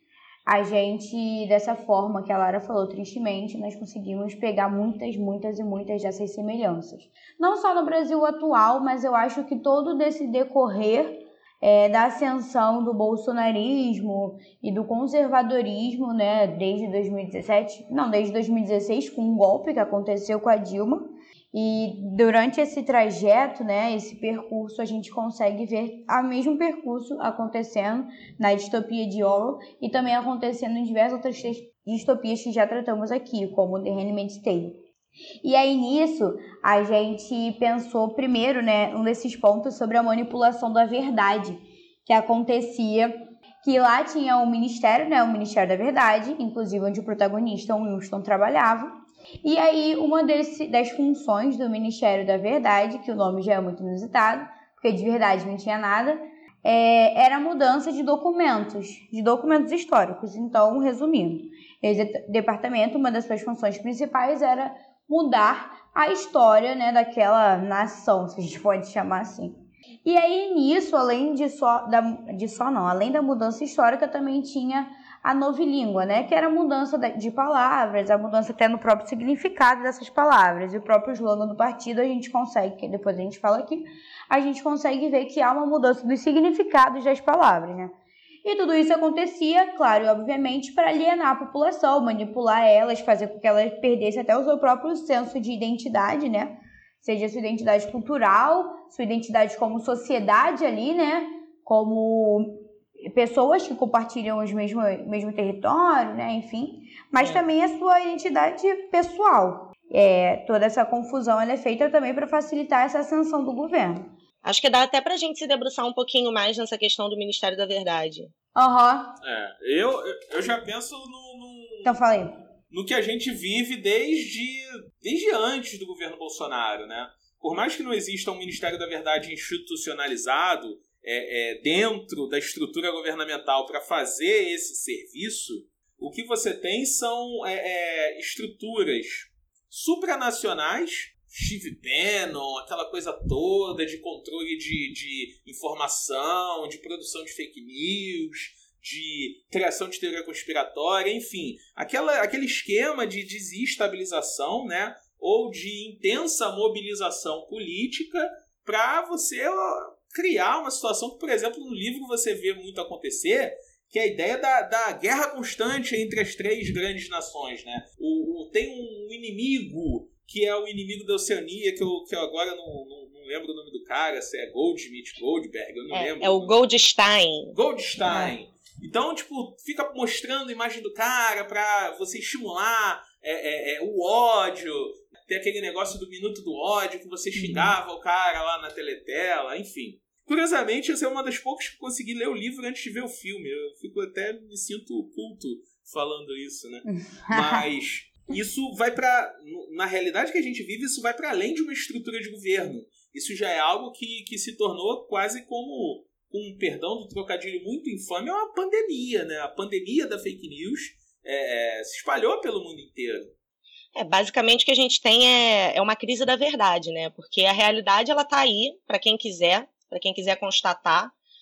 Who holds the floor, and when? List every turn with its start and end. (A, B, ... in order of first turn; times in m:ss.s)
0:00.5-0:34.8 A
0:35.4-0:48.9 A
0:49.4-1:27.9 A
1:28.4-1:42.6 A
1:43.1-1:54.0 A
1:54.4-1:58.3 B
1:58.5-1:59.2 A
1:59.2-2:01.9 C
2:01.8-2:02.3 A
2:02.7-2:56.5 C
2:55.9-2:57.5 B
2:57.5-3:33.3 C
2:58.1-2:58.3 A
3:07.3-3:07.7 A
3:16.9-3:17.6 A
3:34.0-3:41.1 B